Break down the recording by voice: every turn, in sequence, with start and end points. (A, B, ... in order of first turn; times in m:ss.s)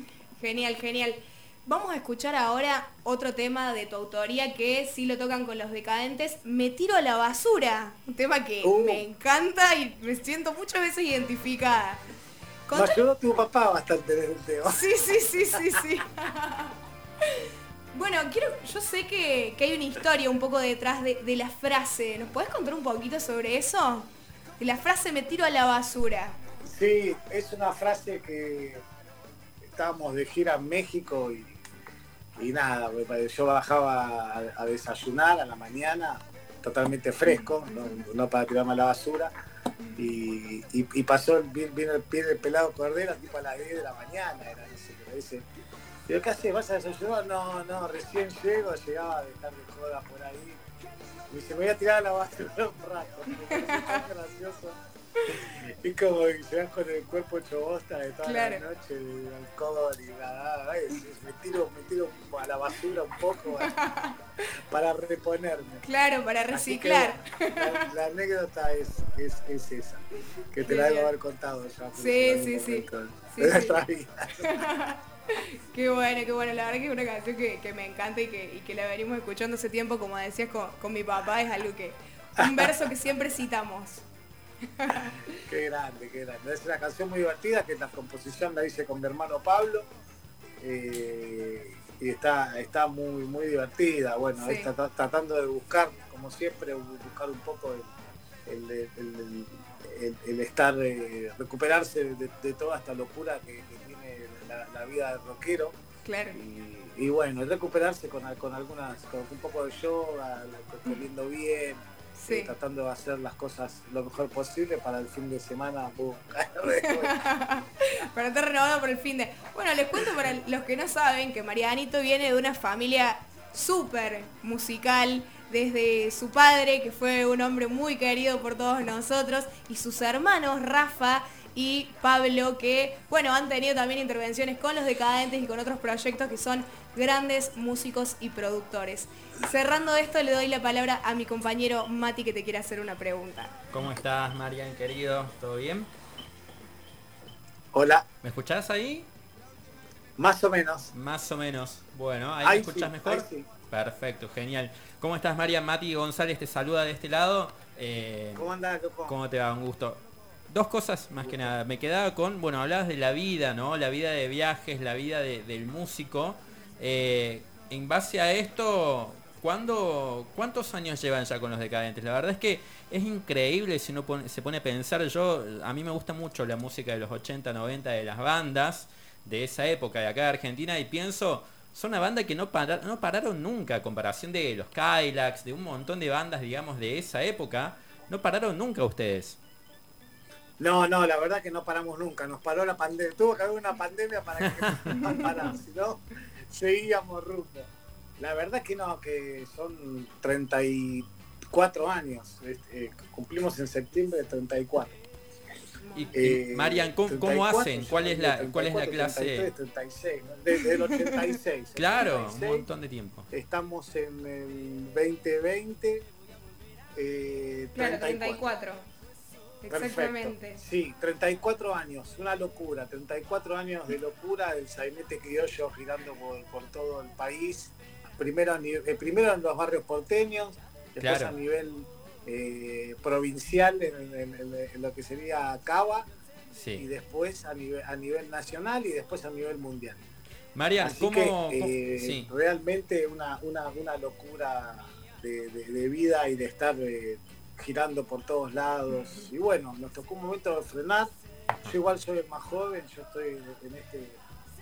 0:00.4-0:12.0 A
0:08.6-0:09.0 B
0:12.7-0:13.0 A
0:12.7-0:14.9 B
0:14.7-0:26.4 A
0:26.7-0:28.8 B
0:29.7-0:31.6 B
0:32.4-0:39.3 B
0:37.3-0:38.0 A
0:40.0-0:45.5 B
0:46.1-0:50.6 B
0:51.3-1:03.8 B
0:53.5-0:54.0 A
0:58.2-0:58.6 A
1:03.6-1:04.2 A
1:04.7-1:05.8 B
1:05.8-1:07.8 A
1:06.5-1:14.7 B
1:10.6-1:11.1 A
1:12.0-1:13.8 A
1:14.4-1:24.0 A
1:22.4-1:22.7 B
1:24.8-1:25.4 A
1:24.9-1:29.9 B
1:30.6-1:37.9 B
1:34.4-1:34.7 A
1:38.5-1:45.8 B
1:46.0-1:46.4 A
1:46.3-1:57.2 B
1:52.2-1:52.5 A
1:56.9-2:23.5 A
2:23.7-2:25.9 C
2:27.7-2:28.0 B
2:28.2-2:29.1 C
2:30.2-2:30.9 B
2:30.9-2:38.5 C
2:32.4-2:33.5 B
2:38.4-2:39.2 B
2:39.1-3:09.4 C
2:41.2-2:41.5 B
3:10.6-3:25.0 B
3:14.6-3:15.0 C
3:25.8-3:26.2 A
3:26.0-3:29.5 C
3:26.2-3:32.6 B
3:30.7-3:31.2 A
3:31.8-3:33.3 C
3:33.3-3:36.1 B
3:37.0-3:38.4 B
3:37.8-3:38.9 A
3:39.6-3:40.6 A
3:39.7-3:56.1 B
3:51.0-3:51.4 C
3:56.5-3:56.8 C
3:56.8-4:00.0 B
4:00.6-4:02.3 C
4:00.8-4:11.1 B
4:11.6-4:14.2 B